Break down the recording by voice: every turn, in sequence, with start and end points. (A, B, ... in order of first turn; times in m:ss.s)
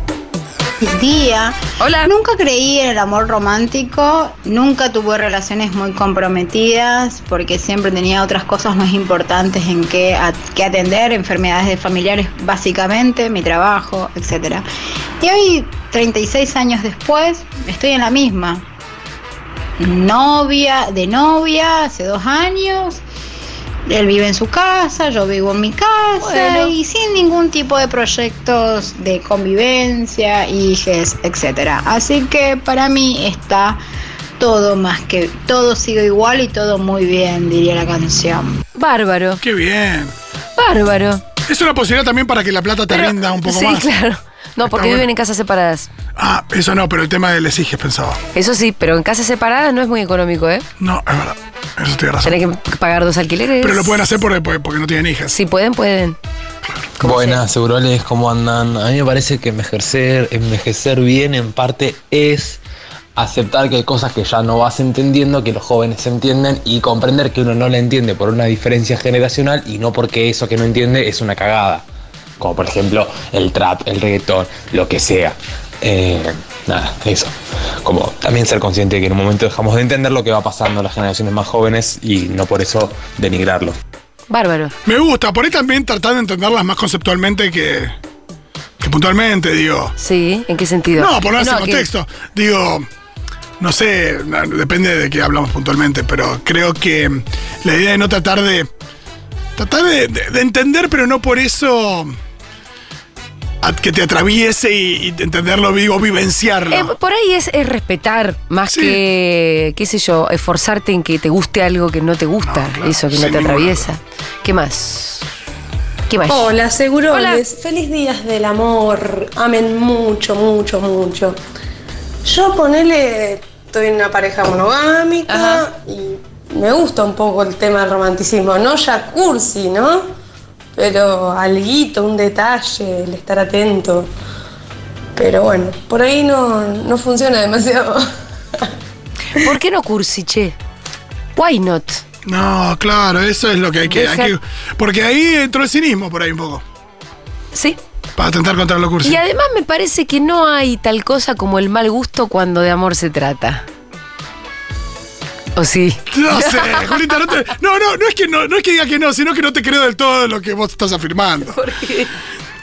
0:00.8-0:14.6 A
0:01.8-0:02.1 B
0:15.2-0:18.7 A
0:19.8-0:23.0 A
0:23.9-0:33.8 A
0:26.2-0:26.7 B
0:34.4-0:38.6 A
0:38.8-0:39.4 B
0:39.4-0:40.1 C
0:40.6-0:41.2 B
0:41.5-0:43.9 C
0:42.9-0:45.9 B
0:44.7-0:45.1 C
0:46.2-0:48.2 C
0:48.3-0:50.7 B
0:50.8-0:52.4 C
0:52.2-0:54.0 B
0:53.6-0:55.4 C
0:55.3-0:56.2 B
0:57.0-0:57.4 B
0:57.0-1:02.6 D
1:03.2-1:11.8 D
1:12.4-1:23.8 D
1:24.3-1:24.7 B
1:24.8-1:27.9 C
1:28.8-1:29.9 C
1:30.0-1:31.9 B
1:31.0-1:32.9 C
1:33.6-1:38.7 C
1:39.6-1:42.2 C
1:43.6-1:46.9 C
1:46.7-1:55.2 B
1:48.7-1:49.0 C
1:52.4-1:53.8 C
1:56.1-1:56.5 B
1:56.3-2:01.4 E
1:57.1-1:57.4 B
2:02.2-2:10.1 E
2:05.3-2:05.7 B
2:10.8-2:14.1 E
2:15.2-2:18.1 E
2:19.3-2:20.6 B
2:21.4-2:22.0 B
2:22.3-2:26.6 C
2:23.9-2:24.3 B
2:28.2-2:29.2 C
2:29.0-2:33.6 B
2:35.6-2:37.0 B
2:36.1-2:41.6 C
2:41.5-2:42.1 B